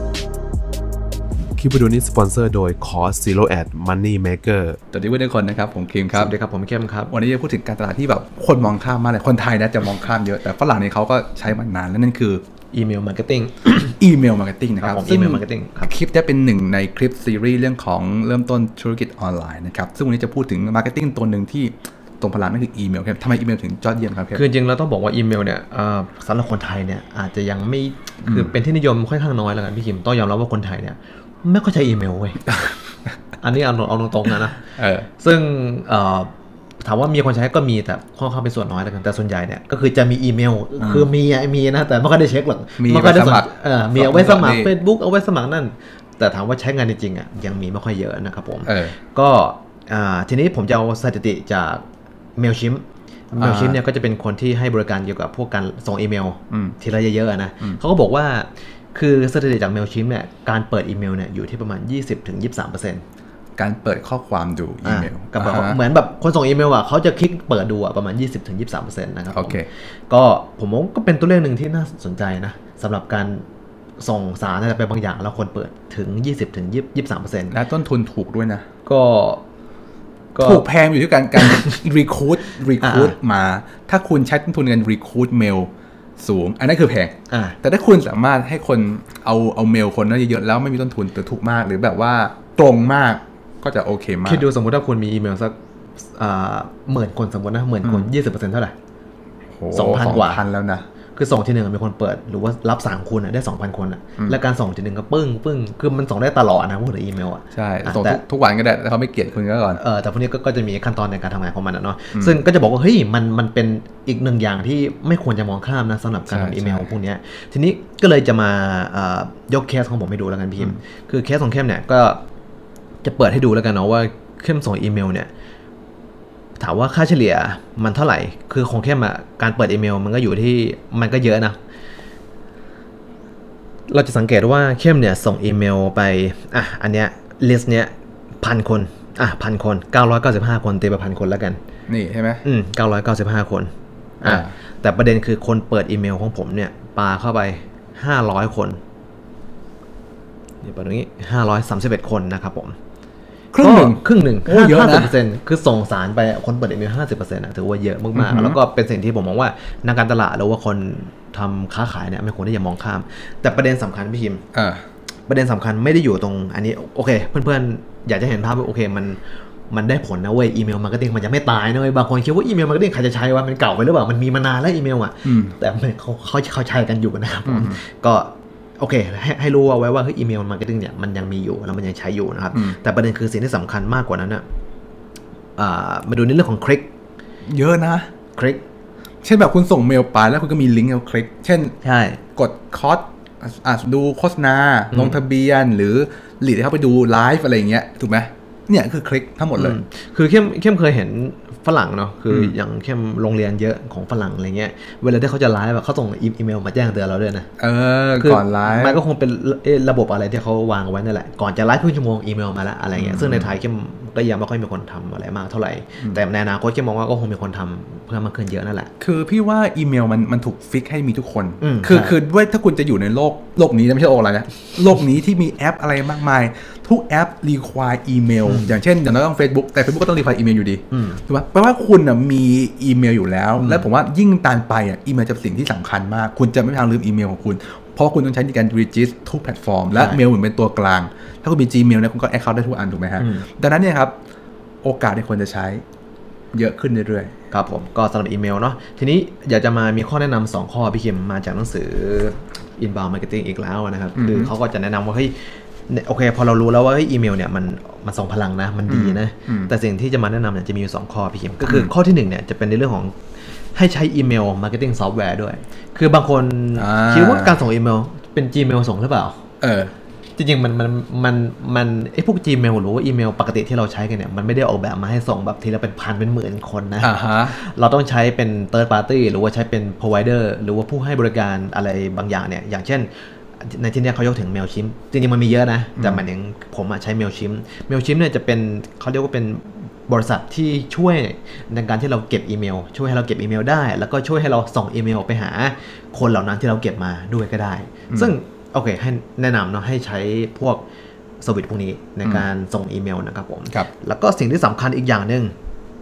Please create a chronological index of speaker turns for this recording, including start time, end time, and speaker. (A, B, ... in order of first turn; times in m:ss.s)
0:01.6-0:04.8 A
0:04.9-0:06.3 B
0:06.1-0:07.1 C
0:07.1-0:12.4 B
0:12.7-0:13.9 C
0:13.7-0:24.4 B
0:14.8-0:15.9 C
0:24.3-0:32.6 C
0:28.2-0:28.5 B
0:33.4-0:36.3 C
0:34.7-0:35.1 B
0:36.8-0:51.8 C
0:40.8-0:41.1 B
0:42.8-0:44.7 B
0:48.6-0:49.0 B
0:52.4-1:03.0 C
0:53.4-0:53.8 B
0:56.5-0:56.8 B
1:03.6-1:05.8 B
1:04.8-1:13.4 C
1:09.3-1:09.7 B
1:14.0-1:17.6 C
1:17.5-1:18.6 B
1:18.8-1:19.4 C
1:20.3-1:20.7 C
1:20.4-1:34.4 B
1:21.4-1:21.7 C
1:22.8-1:23.2 C
1:27.3-1:27.6 C
1:34.2-1:38.7 C
1:39.5-1:40.8 B
1:39.7-1:40.4 C
1:41.1-1:48.2 C
1:47.5-1:49.8 B
1:49.8-2:02.2 C
1:52.1-1:52.4 B
1:56.3-1:56.9 B
2:03.0-2:05.3 C
2:06.6-2:11.6 C
2:13.9-2:21.6 C
2:21.9-2:22.4 B
2:22.4-2:23.7 C
2:24.2-2:28.8 C
2:24.2-2:24.5 B
2:30.6-2:32.7 C
2:33.5-2:35.1 B
2:33.6-2:44.4 C
2:38.1-2:38.6 B
2:44.5-2:44.8 B
2:45.3-3:04.4 C
2:55.2-2:55.6 B
2:57.4-2:57.8 B
3:05.6-3:06.9 C
3:07.5-3:08.1 B
3:08.3-3:08.6 C
3:09.2-3:11.8 B
3:11.8-3:12.2 C
3:12.3-3:19.8 B
3:14.9-3:15.2 C
3:19.5-3:27.5 C
3:27.6-3:29.0 B
3:28.1-3:38.9 C
3:32.9-3:33.6 B
3:39.0-4:04.1 B
3:41.6-3:42.1 C
3:48.4-3:48.8 C
3:50.9-3:51.2 C
3:53.6-3:53.8 C
3:59.9-4:00.2 C
4:03.2-4:03.4 C
4:04.8-4:05.8 B
4:06.5-4:07.3 B
4:07.5-4:23.2 C
4:14.2-4:14.5 B
4:18.9-4:19.7 B
4:21.6-4:21.9 B
4:23.7-4:29.4 C
4:26.8-4:27.6 B
4:29.6-4:29.9 B
4:30.4-5:00.8 C
4:37.0-4:37.6 B
4:46.0-4:46.2 B
5:01.4-5:05.5 C